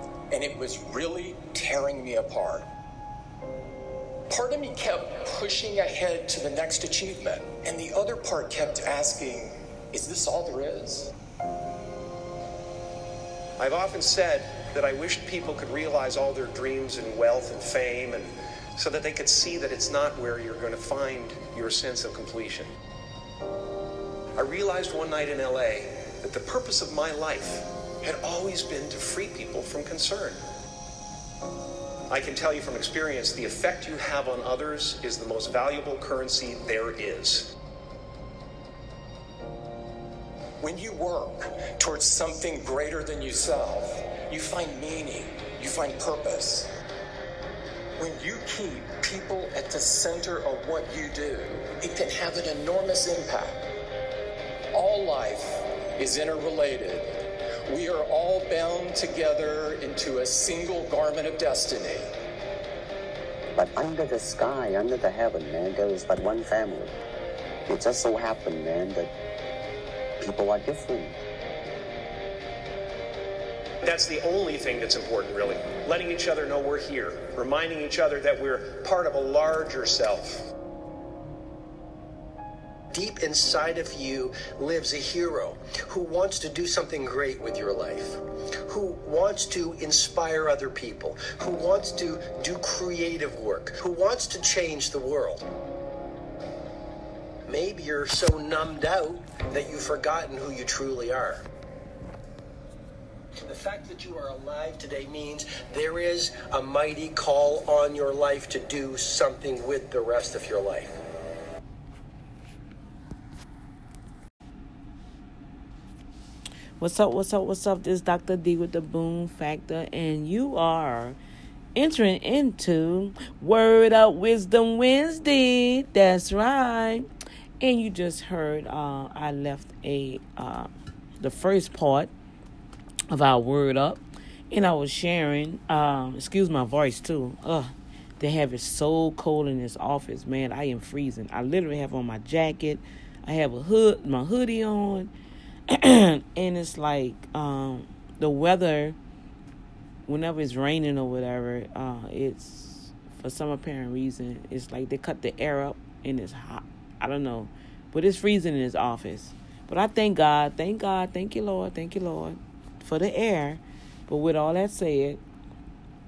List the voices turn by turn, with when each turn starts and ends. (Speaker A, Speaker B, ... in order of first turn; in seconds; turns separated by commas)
Speaker A: 0.3-2.7, Speaker A: 4.3-11.1, Speaker B: 13.6-22.7, Speaker B: 24.4-30.4, Speaker B: 32.1-37.5, Speaker A: 40.6-46.7, Speaker A: 48.0-53.6, Speaker A: 54.7-57.1, Speaker A: 57.6-62.1, Speaker C: 63.5-66.9, Speaker C: 67.7-69.1, Speaker C: 70.2-71.2, Speaker B: 73.8-80.4, Speaker D: 82.9-95.5, Speaker D: 97.5-101.5, Speaker D: 103.5-111.0, Speaker E: 116.8-121.2, Speaker E: 121.7-127.0, Speaker E: 127.6-132.1, Speaker E: 133.1-145.1, Speaker E: 145.7-149.0, Speaker E: 150.1-165.2